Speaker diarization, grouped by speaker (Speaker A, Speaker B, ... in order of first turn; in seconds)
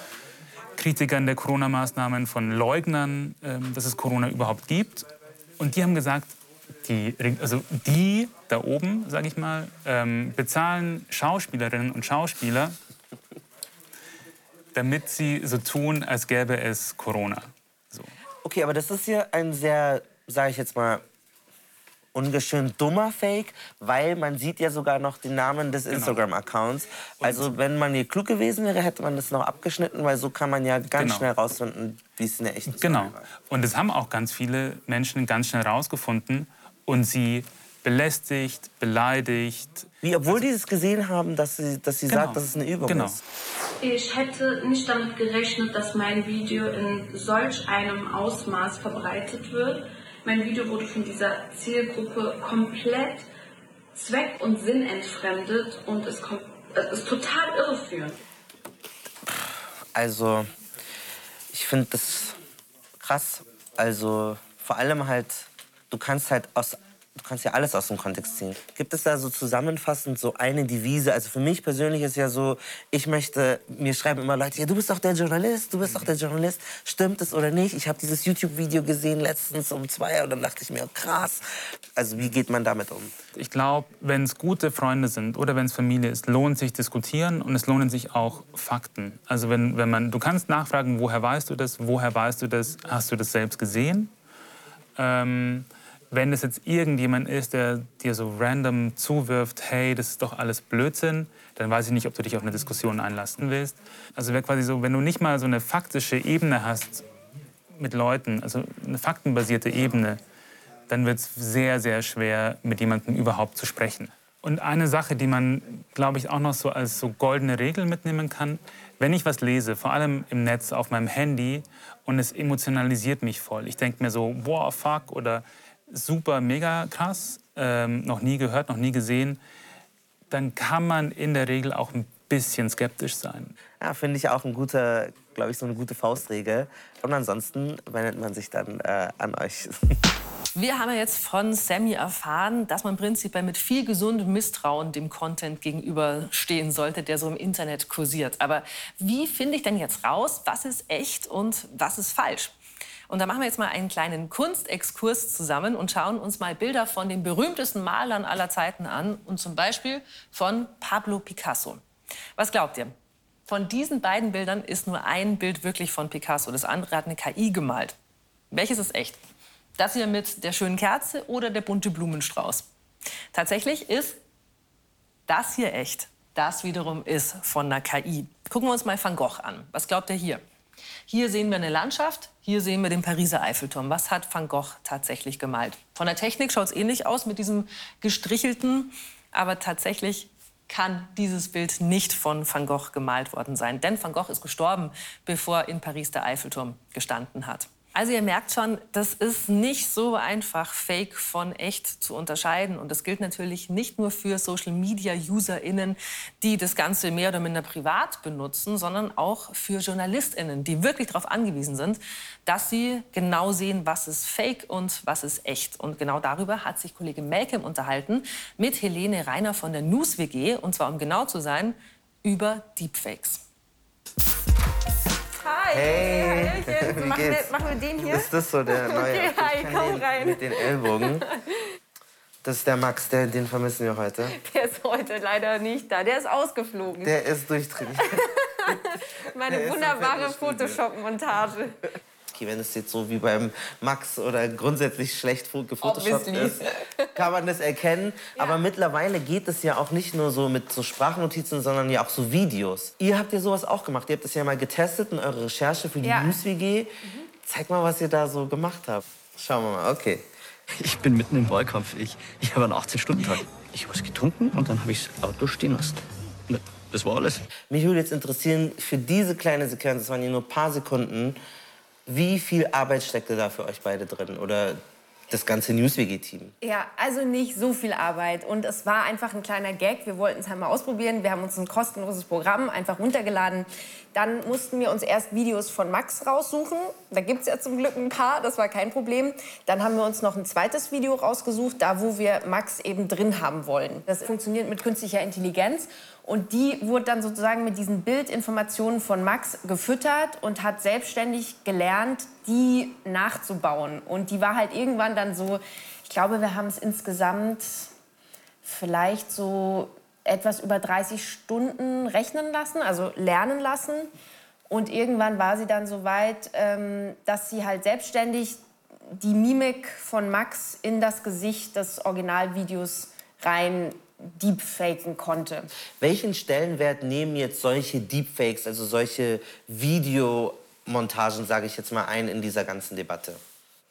Speaker A: 0.8-5.1, 5.6-12.8, 14.8-18.1, 25.9-26.2, 27.2-27.5, 30.9-31.3, 32.7-40.4, 42.1-43.2, 83.3-94.1, 95.0-107.0, 107.8-110.2, 110.9-129.4, 130.3-133.6
Speaker B: 18.4-21.0, 22.1-33.3, 40.0-43.2, 59.3-60.5, 61.5-62.4, 63.0-83.1, 133.8-139.9, 225.7-231.2, 232.4-234.4, 237.0-238.8, 239.5-240.8, 242.3-256.9, 257.4-260.3, 267.7-271.4, 272.1-276.5, 326.0-333.4
Speaker C: 43.8-53.3, 54.0-58.2
Speaker D: 140.6-152.6, 153.1-161.8, 162.4-162.9, 163.5-168.0, 168.5-169.2, 169.8-172.7, 173.3-174.2, 175.3-180.4, 181.1-223.4
Speaker E: 225.4-231.6, 234.3-237.2, 237.9-241.8, 245.8-247.3, 248.4-248.6, 256.0-256.4, 276.6-307.9, 308.6-314.1, 314.7-318.6, 319.1-325.7
Speaker F: 260.8-267.4